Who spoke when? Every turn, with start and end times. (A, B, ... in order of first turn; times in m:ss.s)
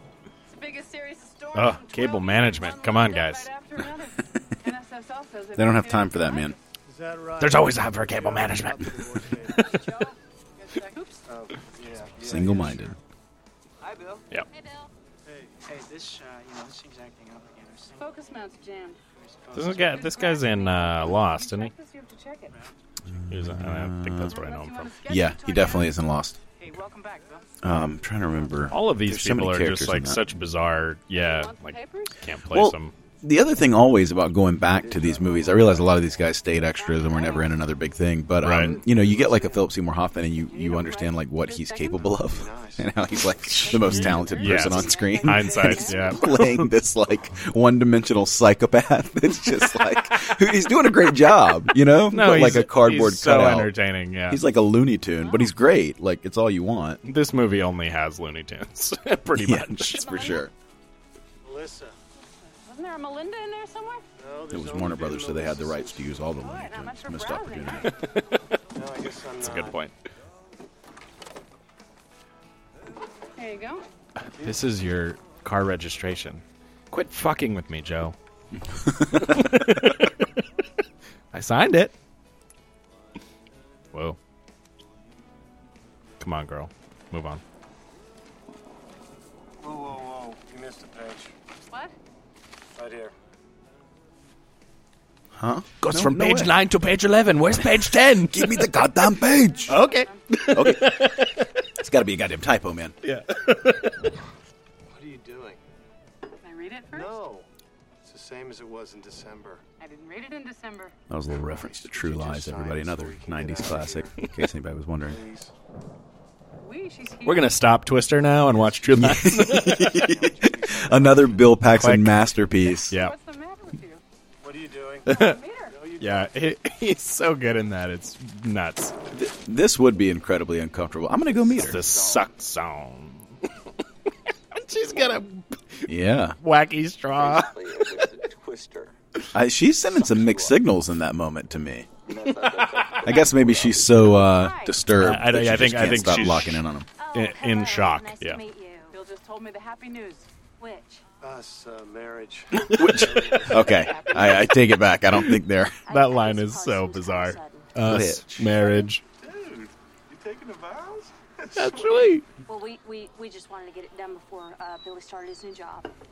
0:00.5-0:06.6 A
0:01.5-0:03.5 B
0:05.6-0:06.6 C
0:06.9-0:09.7 D
0:07.4-0:09.0 B
0:09.5-0:09.8 B
0:09.6-0:11.2 A
0:11.3-0:13.0 D
0:12.2-0:13.0 C
0:15.2-0:15.5 D
0:15.6-0:18.3 E
0:18.0-0:19.0 A
0:19.1-0:20.1 E
0:19.5-0:21.7 B
0:19.7-0:22.6 A
0:23.1-0:24.3 C
0:23.3-0:25.0 B
0:24.3-0:26.0 A
0:25.1-0:26.4 C
0:26.6-0:27.5 A
0:27.6-0:30.2 C
0:28.7-0:32.9 B
0:31.1-0:32.2 A
0:32.5-0:53.7 C
0:34.7-0:36.2 D
0:36.9-0:37.6 A
0:38.4-0:38.8 B
0:38.4-0:39.6 D
0:40.5-0:42.1 A
0:42.0-0:42.9 D
0:43.6-0:46.6 B
0:43.6-0:46.3 A
0:43.7-0:44.2 D
0:49.7-0:50.3 B
0:52.1-0:54.4 B
0:54.3-0:57.0 C
0:57.0-1:00.3 B
0:59.4-1:00.5 C
1:00.0-1:00.5 A
1:01.4-1:02.0 D
1:02.6-1:04.0 A
1:04.2-1:06.2 D
1:04.5-1:07.9 C
1:06.4-1:07.9 A
1:07.8-1:08.2 B
1:08.7-1:09.8 D
1:09.4-1:09.9 B
1:13.4-1:13.9 A
1:14.2-1:18.2 B
1:18.7-1:19.7 C
1:19.1-1:20.2 B
1:21.3-1:21.9 B
1:23.9-1:24.2 B
1:26.2-1:27.4 B
1:29.6-1:31.3 D
1:31.7-1:31.9 A
1:32.8-1:33.1 D
1:35.3-1:36.6 C
1:35.8-1:38.7 B
1:37.5-1:39.9 C
1:39.3-1:40.5 A
1:39.7-1:41.4 B
1:40.5-1:41.1 C
1:41.8-1:43.0 C
1:43.0-1:43.9 B
1:44.9-1:45.6 D
1:46.4-1:47.2 A
1:46.9-1:47.5 D
1:48.0-1:49.6 D
1:49.8-1:51.0 A
1:51.1-1:55.2 C
1:51.3-1:54.3 D
1:55.0-1:55.5 D
1:56.6-1:57.6 A
1:57.2-2:00.1 B
1:58.9-2:02.9 C
2:00.0-2:01.3 D
2:01.7-2:02.2 B
2:02.8-2:04.0 A
2:02.9-2:03.2 B
2:04.4-2:05.1 D
2:05.1-2:05.4 B
2:05.1-2:05.8 A
2:05.7-2:06.4 D
2:06.0-2:08.9 B
2:09.1-2:11.9 C
2:11.6-2:13.5 B
2:11.7-2:12.3 F
2:14.5-2:18.0 B
2:15.9-2:16.4 C
2:17.1-2:19.0 F
2:19.3-2:21.9 C
2:19.8-2:20.7 F
2:22.1-2:24.3 F
2:22.3-2:23.1 B
2:23.0-2:26.9 C
2:24.3-2:24.8 A
2:24.9-2:28.4 B
2:27.0-2:29.0 G
2:28.9-2:30.3 A
2:30.6-2:31.0 G
2:31.2-2:33.9 D
2:32.7-2:35.8 C
2:34.2-2:34.5 B
2:35.9-2:37.7 G
2:35.9-2:39.0 B
2:37.8-2:38.5 C
2:38.4-2:38.9 G
2:39.2-2:42.0 D
2:41.6-2:42.2 B
2:42.5-2:45.9 G